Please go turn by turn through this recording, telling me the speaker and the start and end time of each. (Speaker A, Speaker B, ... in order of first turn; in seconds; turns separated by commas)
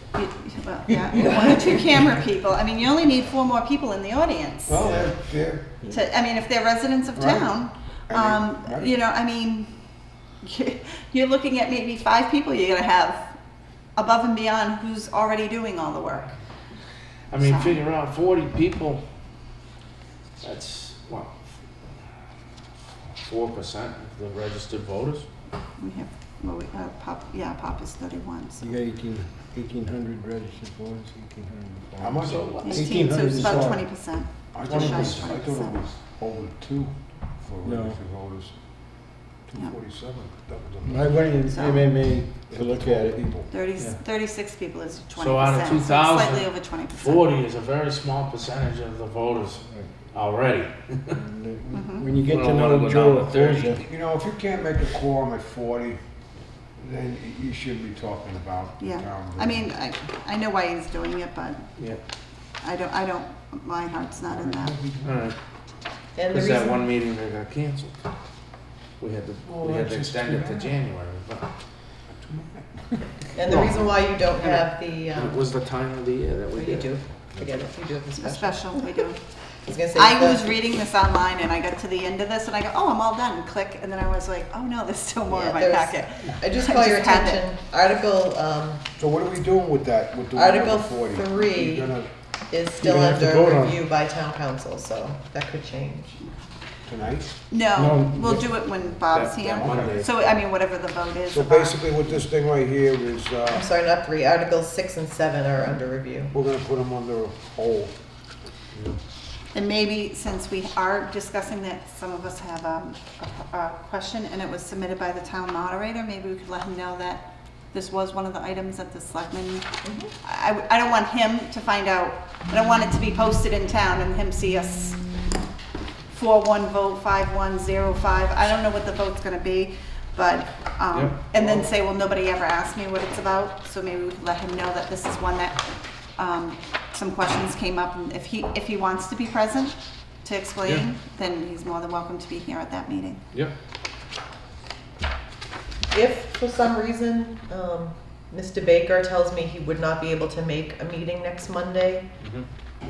Speaker A: 0.1-4.8, Speaker B: 0.9-1.7, Speaker C: 4.7-5.8, Speaker B: 4.8-5.1, Speaker A: 5.9-9.8, Speaker C: 7.2-7.6, Speaker C: 8.1-8.9, Speaker A: 10.4-13.4, Speaker A: 14.0-16.3, Speaker B: 17.3-19.0, Speaker A: 17.4-17.8, Speaker B: 20.4-21.4, Speaker B: 23.2-25.3, Speaker A: 25.8-28.8, Speaker D: 28.6-33.9, Speaker C: 32.0-33.8, Speaker B: 32.2-33.5, Speaker A: 32.6-35.8, Speaker C: 34.5-38.5, Speaker B: 34.7-35.3, Speaker D: 34.7-35.1, Speaker D: 37.6-38.0, Speaker C: 39.5-41.3, Speaker D: 40.8-43.3, Speaker A: 41.1-41.9, Speaker C: 42.5-43.5, Speaker A: 43.5-47.3, Speaker B: 45.2-51.2, Speaker D: 49.6-49.9, Speaker D: 51.1-53.9, Speaker A: 51.7-52.2, Speaker B: 52.2-53.8, Speaker C: 53.8-56.0, Speaker C: 56.8-59.7, Speaker A: 58.8-61.7, Speaker A: 62.6-64.8, Speaker C: 64.2-65.3, Speaker B: 65.0-65.4, Speaker E: 66.2-66.8, Speaker B: 66.3-68.0, Speaker B: 69.0-71.5, Speaker C: 69.5-70.8, Speaker C: 72.1-73.0, Speaker E: 73.3-75.5, Speaker B: 73.5-76.9, Speaker E: 76.5-79.1, Speaker A: 78.2-79.2, Speaker E: 79.6-80.6, Speaker A: 80.0-87.4, Speaker E: 85.3-88.8, Speaker C: 89.0-92.1, Speaker E: 90.3-92.0, Speaker E: 92.5-96.2, Speaker B: 92.8-93.8, Speaker C: 96.9-97.3, Speaker A: 97.5-101.9, Speaker D: 97.7-98.5, Speaker B: 99.1-100.3, Speaker C: 99.6-100.0, Speaker C: 101.3-103.7, Speaker E: 103.5-106.3, Speaker C: 106.3-108.0, Speaker A: 109.5-119.7, Speaker E: 119.8-120.1, Speaker A: 120.2-125.0, Speaker A: 126.1-135.7, Speaker B: 130.9-131.6, Speaker A: 136.2-143.2, Speaker E: 145.9-152.1, Speaker B: 152.2-152.4